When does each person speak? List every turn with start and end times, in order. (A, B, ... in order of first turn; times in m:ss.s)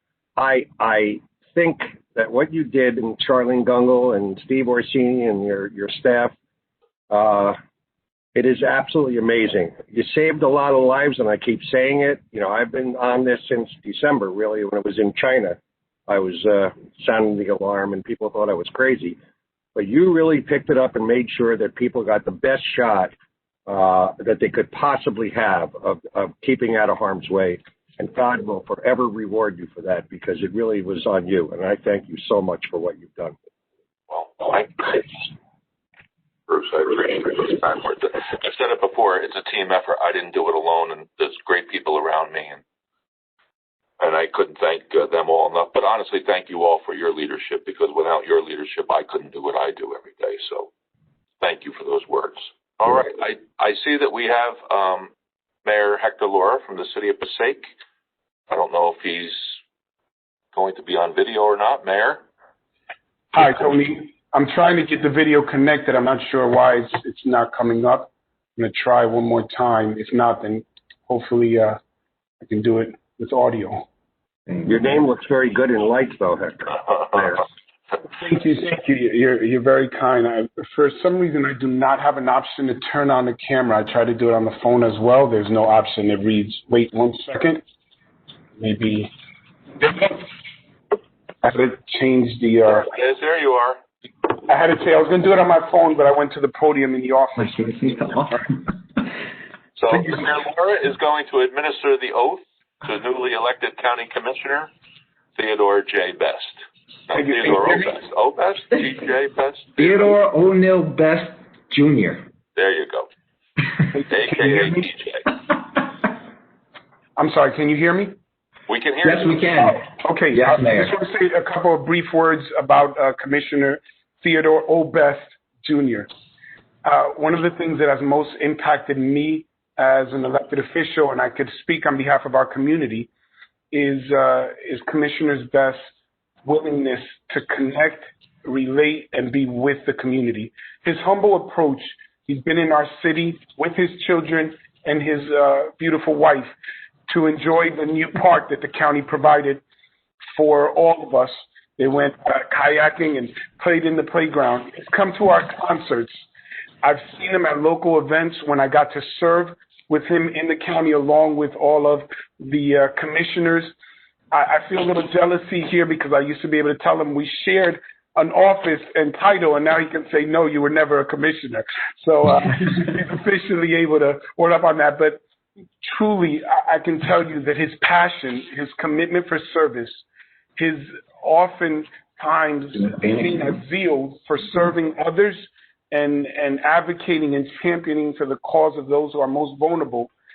0:00.4-0:06.3 A
0:07.1-0:07.6 A
0:08.3-0:19.2 A
0:19.7-0:23.1 A
0:23.7-0:33.4 A
0:34.1-0:35.1 B
0:36.5-0:42.6 B
0:44.0-0:50.7 B
0:51.4-0:55.1 B
0:55.6-0:57.7 B
0:58.5-0:59.6 B
1:00.5-1:02.2 B
1:03.3-1:11.8 C
1:12.4-1:13.8 C
1:14.5-1:14.8 D
1:14.6-1:17.4 A
1:18.1-1:27.6 C
1:28.6-1:29.1 C
1:29.8-1:30.3 C
1:31.4-1:32.9 C
1:32.7-1:33.8 B
1:34.5-1:38.2 C
1:37.4-1:38.5 D
1:39.8-1:44.7 B
1:45.4-1:50.1 B
1:47.1-1:48.0 C
1:49.8-1:52.2 D
1:52.5-1:53.1 B
1:53.9-1:54.9 C
1:54.1-1:55.3 B
1:57.2-1:58.2 C
1:58.7-1:59.5 B
1:59.0-2:00.9 D
1:59.6-2:06.1 C
2:06.8-2:13.1 C
2:13.7-2:15.8 C
2:16.4-2:26.5 C
2:27.1-2:29.6 C
2:30.3-2:36.3 C
2:36.8-2:43.7 C
2:44.3-2:55.2 C
2:55.8-3:00.0 C
3:00.6-3:10.1 C